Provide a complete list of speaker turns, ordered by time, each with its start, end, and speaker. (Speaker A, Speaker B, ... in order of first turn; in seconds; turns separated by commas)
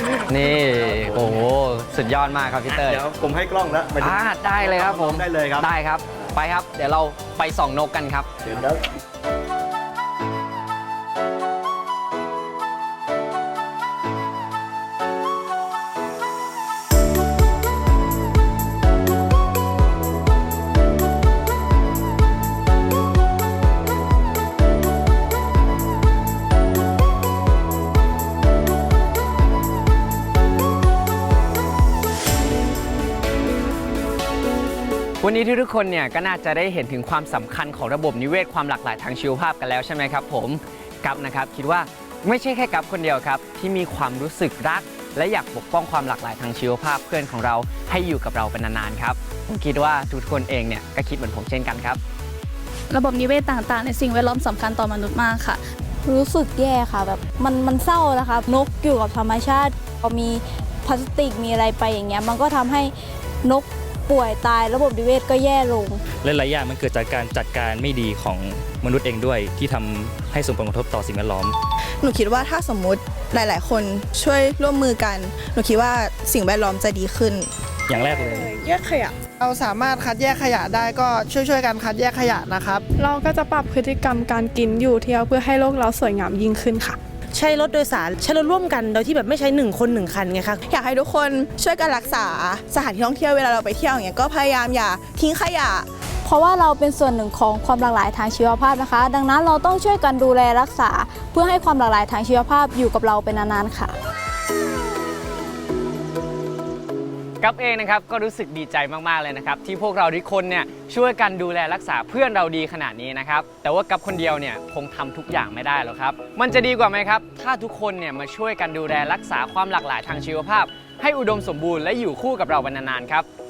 Speaker A: 0.3-3.0, Speaker B: 2.7-5.7, Speaker A: 4.0-8.3, Speaker B: 8.4-8.8, Speaker A: 35.2-52.0, Speaker C: 52.9-55.6, Speaker D: 56.1-62.9, Speaker D: 63.5-66.0, Speaker E: 66.2-71.5, Speaker F: 72.0-77.5, Speaker E: 77.9-78.5, Speaker G: 78.0-79.1, Speaker H: 79.4-82.8, Speaker G: 83.0-87.0, Speaker I: 87.3-90.6, Speaker F: 90.7-95.9, Speaker D: 96.2-103.9, Speaker A: 107.4-123.3